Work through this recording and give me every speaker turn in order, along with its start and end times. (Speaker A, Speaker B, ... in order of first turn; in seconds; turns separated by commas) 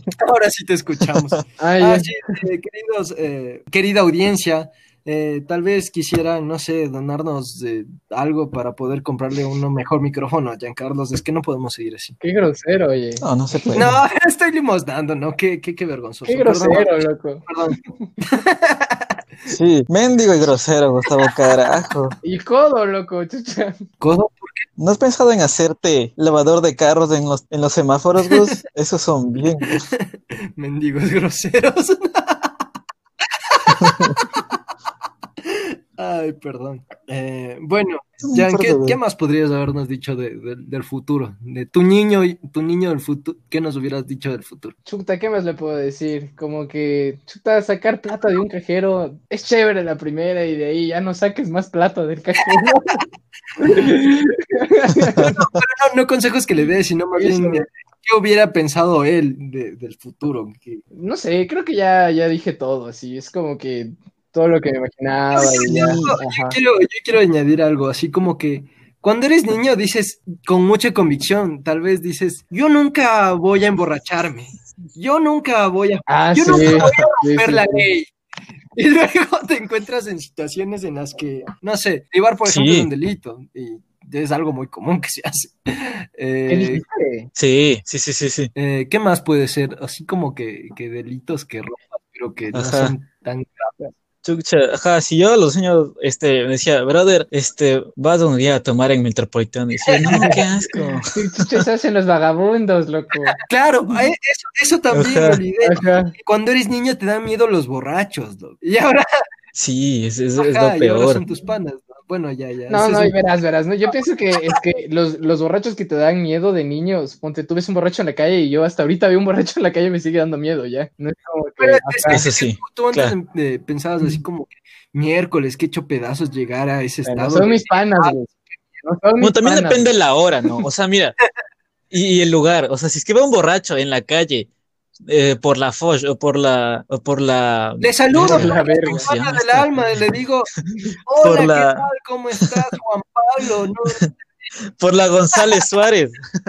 Speaker A: 0.2-12.2, Speaker B: 1.6-2.1, Speaker B: 12.2-13.8, Speaker C: 13.2-14.0, Speaker A: 13.7-19.1, Speaker B: 16.2-17.4, Speaker C: 19.5-22.1, Speaker B: 22.2-23.8, Speaker A: 24.0-24.7, Speaker C: 24.8-29.8, Speaker A: 29.7-32.6, Speaker A: 33.5-34.4, Speaker C: 33.7-34.2, Speaker A: 35.4-44.8, Speaker C: 38.2-39.0, Speaker B: 44.9-53.0, Speaker B: 53.6-55.3, Speaker A: 55.1-60.8, Speaker B: 57.2-57.6, Speaker B: 60.9-66.6, Speaker A: 65.3-78.1, Speaker C: 65.6-66.2, Speaker B: 76.1-77.8, Speaker A: 78.8-86.8, Speaker C: 82.4-82.9, Speaker B: 86.5-87.3, Speaker C: 87.3-88.5, Speaker A: 88.5-93.7, Speaker C: 92.5-92.9, Speaker C: 94.2-101.6, Speaker A: 99.8-100.5, Speaker B: 100.1-100.3, Speaker B: 101.1-103.4, Speaker A: 103.4-109.1, Speaker C: 104.9-105.4, Speaker B: 105.6-106.1, Speaker C: 109.5-111.2, Speaker A: 110.4-113.1, Speaker B: 112.7-122.3, Speaker A: 121.6-128.1, Speaker C: 122.1-123.1, Speaker B: 127.0-128.3, Speaker B: 128.8-129.9, Speaker C: 129.2-131.2, Speaker C: 131.9-134.5, Speaker C: 135.0-139.9, Speaker A: 137.8-140.5, Speaker B: 138.2-139.1, Speaker A: 141.1-144.1, Speaker C: 141.2-141.9, Speaker C: 144.8-146.2